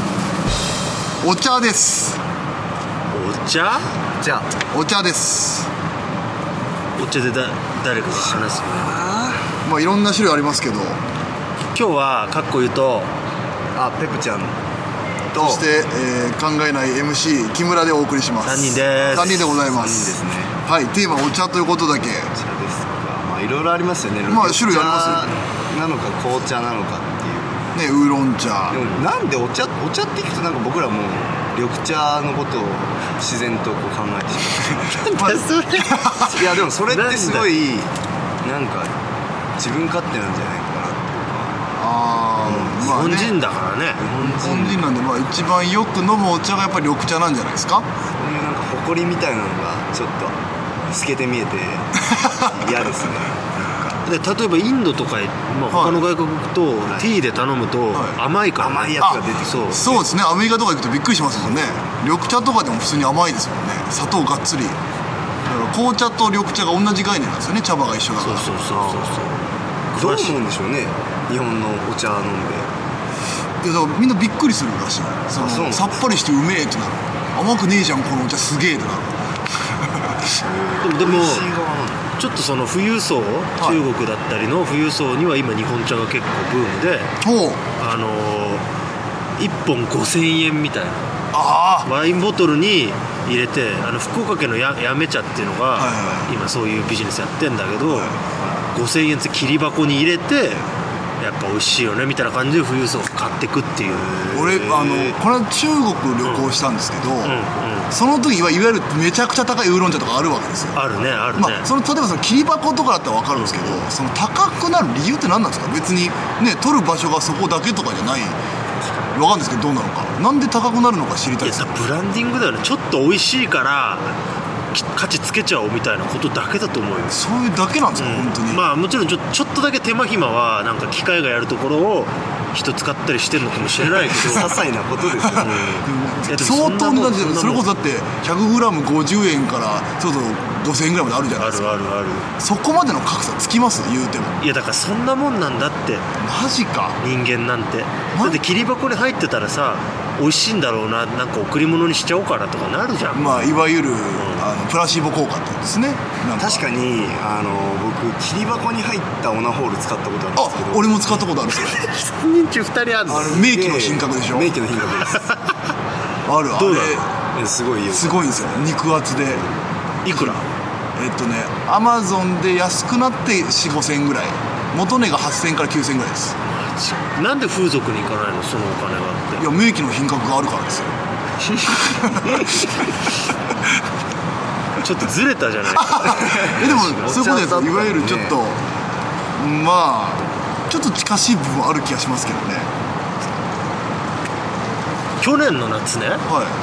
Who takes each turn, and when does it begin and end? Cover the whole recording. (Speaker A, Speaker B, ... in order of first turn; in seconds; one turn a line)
Speaker A: 1.2-2.2
Speaker B: 3.1-3.9
Speaker C: 4.2-4.5
Speaker A: 4.7-5.7
Speaker B: 7.0-9.1
Speaker C: 8.3-9.4
Speaker A: 9.6-11.0
Speaker B: 11.7-13.1
Speaker C: 13.7-14.6
Speaker C: 15.3-15.7
Speaker A: 15.3-22.3
Speaker B: 18.4-19.5
Speaker C: 19.1-20.6
Speaker C: 22.3-27.7
Speaker A: 24.3-25.3
Speaker A: 27.7-28.8
Speaker C: 28.7-35.1
Speaker B: 35.0-36.1
Speaker A: 35.1-36.5
Speaker C: 36.2-37.9
Speaker B: 36.9-37.5
Speaker C: 38.4-38.9
Speaker C: 39.6-41.5
Speaker A: 41.8-43.4
Speaker C: 42.4-42.9
Speaker B: 42.8-44.0
Speaker C: 44.0-44.9
Speaker A: 44.2-47.9
Speaker C: 48.2-50.4
Speaker C: 50.9-54.0
Speaker A: 52.1-52.4
Speaker B: 54.0-60.0
Speaker A: 55.7-56.0
Speaker C: 58.6-60.0
Speaker A: 59.0-64.8
Speaker A: 65.4-68.5
Speaker B: 68.2-69.4
Speaker C: 68.7-69.1
Speaker B: 69.9-70.4
Speaker C: 69.9-72.7
Speaker A: 73.6-80.2
Speaker C: 75.3-76.1
Speaker C: 80.4-82.0
Speaker B: 80.8-81.5
Speaker B: 82.2-87.1
Speaker A: 83.6-83.9
Speaker A: 87.2-87.6
Speaker B: 87.8-88.6
Speaker B: 89.4-91.1
Speaker A: 91.3-91.9
Speaker B: 91.8-98.2
Speaker A: 95.8-96.3
Speaker A: 97.9-98.1
Speaker B: 98.7-100.6
Speaker B: 101.2-104.2
Speaker C: 104.1-105.2
Speaker A: 104.3-107.4
Speaker B: 106.2-106.5
Speaker B: 107.2-107.9
Speaker A: 107.9-110.8
Speaker B: 110.7-111.7
Speaker A: 111.3-118.3
Speaker B: 113.3-113.8
Speaker A: 119.1-121.8
Speaker B: 121.4-124.1
Speaker B: 124.7-127.2
Speaker A: 127.1-128.6
Speaker B: 127.9-134.5
Speaker C: 133.9-135.7
Speaker A: 135.3-144.4
Speaker B: 135.3-137.7
Speaker B: 141.4-142.3
Speaker B: 144.4-146.0
Speaker A: 146.2-147.0
Speaker B: 147.0-153.5
Speaker A: 148.1-148.4
Speaker A: 153.1-156.7
Speaker B: 154.2-154.4
Speaker C: 156.4-161.1
Speaker A: 160.3-161.8
Speaker B: 161.6-163.4
Speaker A: 163.1-164.5
Speaker C: 163.1-165.3
Speaker B: 165.2-165.6
Speaker A: 166.2-167.1
Speaker B: 166.6-167.0
Speaker C: 167.3-168.3
Speaker A: 167.9-169.4
Speaker A: 170.0-170.4
Speaker B: 170.1-170.4
Speaker A: 170.9-176.3
Speaker B: 176.4-179.5
Speaker A: 179.4-180.9
Speaker A: 181.7-182.3
Speaker B: 184.8-187.3
Speaker A: 185.8-188.6
Speaker C: 186.2-188.4
Speaker A: 189.3-192.7
Speaker B: 195.2-196.2
Speaker A: 196.3-196.5